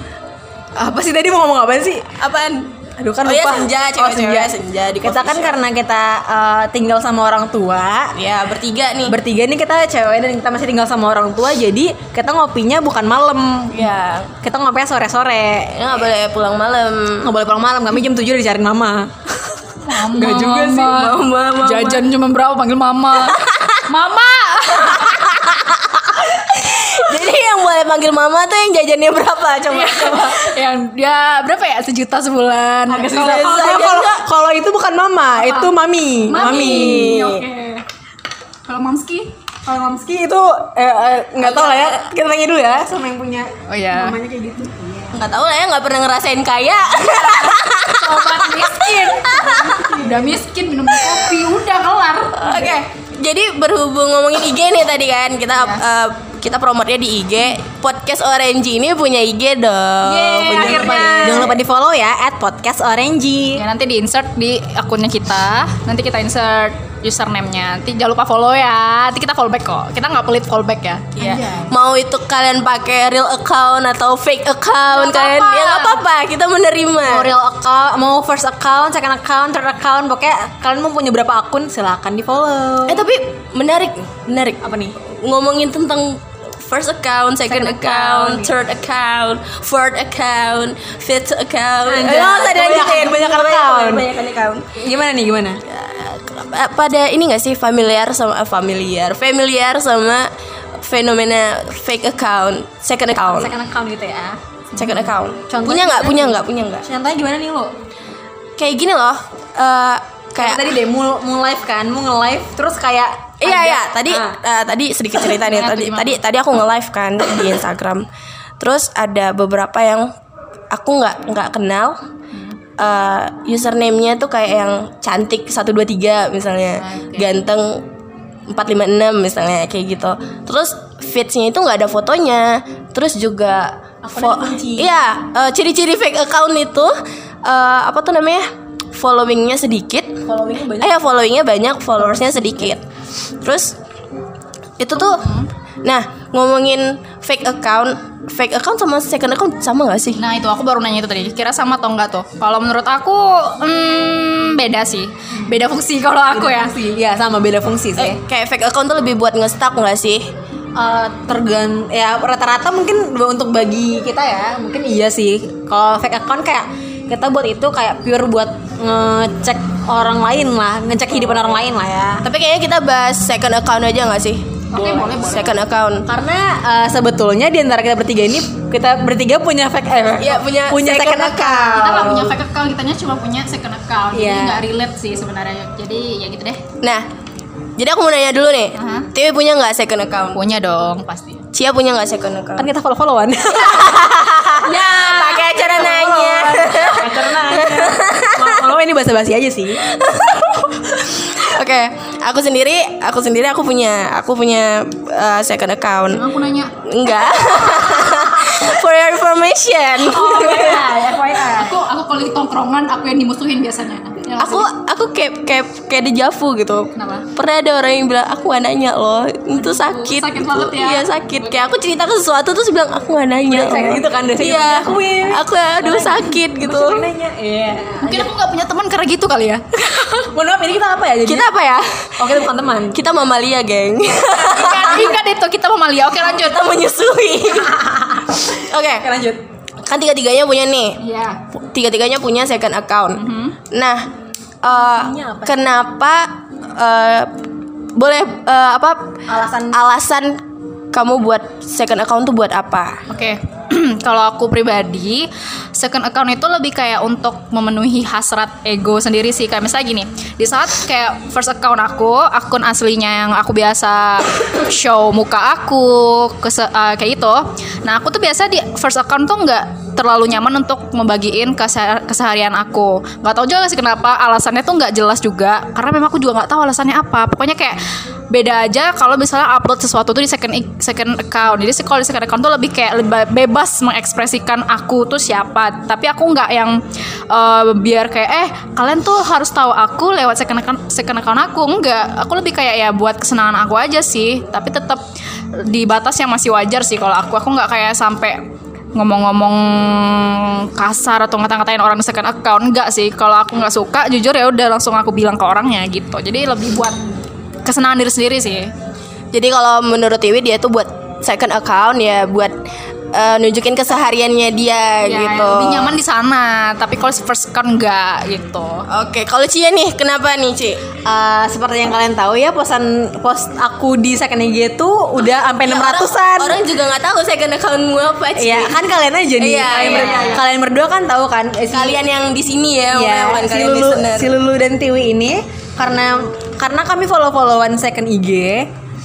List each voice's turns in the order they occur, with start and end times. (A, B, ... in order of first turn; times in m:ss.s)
0:00.8-0:02.2 A
0:02.1-0:02.7 B
0:03.0-0:08.1 A
0:03.2-0:05.6 B
0:08.1-0:09.2 B
0:09.1-0:13.9 A
0:13.7-0:14.3 B
0:14.4-0:15.8 A
0:15.7-0:17.3 B
0:17.2-0:19.1 A
0:19.8-0:25.4 C
0:20.1-0:20.9 A
0:20.8-0:22.0 B
0:23.3-0:23.8 B
0:24.8-0:30.5 B
0:29.7-0:33.2 C
0:32.9-0:37.2 A
0:33.0-0:34.2 B
0:35.4-0:35.7 C
0:36.3-0:37.8 C
0:36.3-0:37.4 B
0:38.7-0:39.3 C
0:39.6-0:45.2 A
0:41.4-0:42.0 B
0:43.7-0:44.2 C
0:45.1-0:50.0 B
0:47.1-0:52.8 C
0:49.4-0:50.4 A
0:50.9-0:51.2 B
0:52.3-1:01.5 B
1:00.0-1:01.6 C
1:00.5-1:03.6 A
1:03.6-1:11.4 C
1:11.2-1:17.3 B
1:11.2-1:11.7 A
1:14.9-1:16.0 C
1:17.1-1:23.1 A
1:22.9-1:34.8 B
1:24.6-1:25.0 A
1:27.5-1:28.5 A
1:31.8-1:34.1 A
1:34.8-1:35.6 A
1:35.6-1:43.5 B
1:43.2-1:47.7 A
1:44.8-1:46.9 B
1:48.6-1:50.7 B
1:50.4-1:54.4 A
1:53.4-1:58.1 B
1:55.3-1:56.2 C
1:58.6-2:00.1 B
2:00.7-2:02.0 B
2:02.8-2:07.9 B
2:06.8-2:07.3 C
2:08.5-2:20.2 B
2:14.0-2:15.0 A
2:20.2-2:21.0 A
2:20.8-2:22.8 B
2:22.0-2:22.7 A
2:23.4-2:23.8 B
2:24.8-2:25.3 B
2:25.0-2:25.5 C
2:25.8-2:30.2 B
2:30.2-2:36.7 C
2:36.3-2:38.2 A
2:38.0-2:40.3 B
2:40.8-2:52.2 A
2:52.2-2:56.1 B
2:54.7-2:55.6 C
2:54.8-2:55.1 A
2:56.1-3:02.4 A
3:00.2-3:02.3 B
3:01.8-3:06.6 C
3:04.1-3:04.6 A
3:06.8-3:07.1 B
3:07.8-3:10.4 B
3:08.8-3:09.1 C
3:10.4-3:11.4 C
3:11.5-3:12.7 B
3:12.6-3:19.8 A
3:14.6-3:18.5 B
3:19.8-3:26.3 B
3:26.1-3:26.7 C
3:26.8-3:31.4 B
3:30.0-3:34.7 C
3:30.3-3:31.8 A
3:34.4-3:47.0 B
3:37.0-3:37.3 C
3:39.6-3:41.6 C
3:43.4-3:48.3 A
3:48.0-3:50.3 C
3:50.3-3:51.5 A
3:51.2-3:52.1 B
3:52.2-3:53.0 A
3:52.9-3:55.1 B
3:54.4-3:56.8 C
3:54.9-3:55.1 A
3:56.2-3:57.8 B
3:57.5-3:59.4 A
3:58.5-3:59.1 B
3:59.8-4:01.0 B
4:01.0-4:01.4 C
4:01.5-4:04.1 B
4:03.2-4:03.6 C
4:04.6-4:07.3 B
4:04.7-4:05.6 A
4:07.9-4:09.2 B
4:09.3-4:09.8 A
4:09.7-4:13.0 B
4:13.1-4:37.8 C
4:38.3-4:55.0 C
4:55.6-4:58.4 C
4:58.9-5:08.7 C
5:09.3-5:12.6 B
5:13.1-5:15.9 B
5:15.0-5:18.8 C
5:18.9-5:20.8 B
5:21.0-5:26.6 A
5:25.6-5:28.8 B
5:28.4-5:32.0 A
5:29.4-5:30.4 B
5:29.7-5:30.4 C
5:31.7-5:34.3 B
5:32.9-5:38.7 A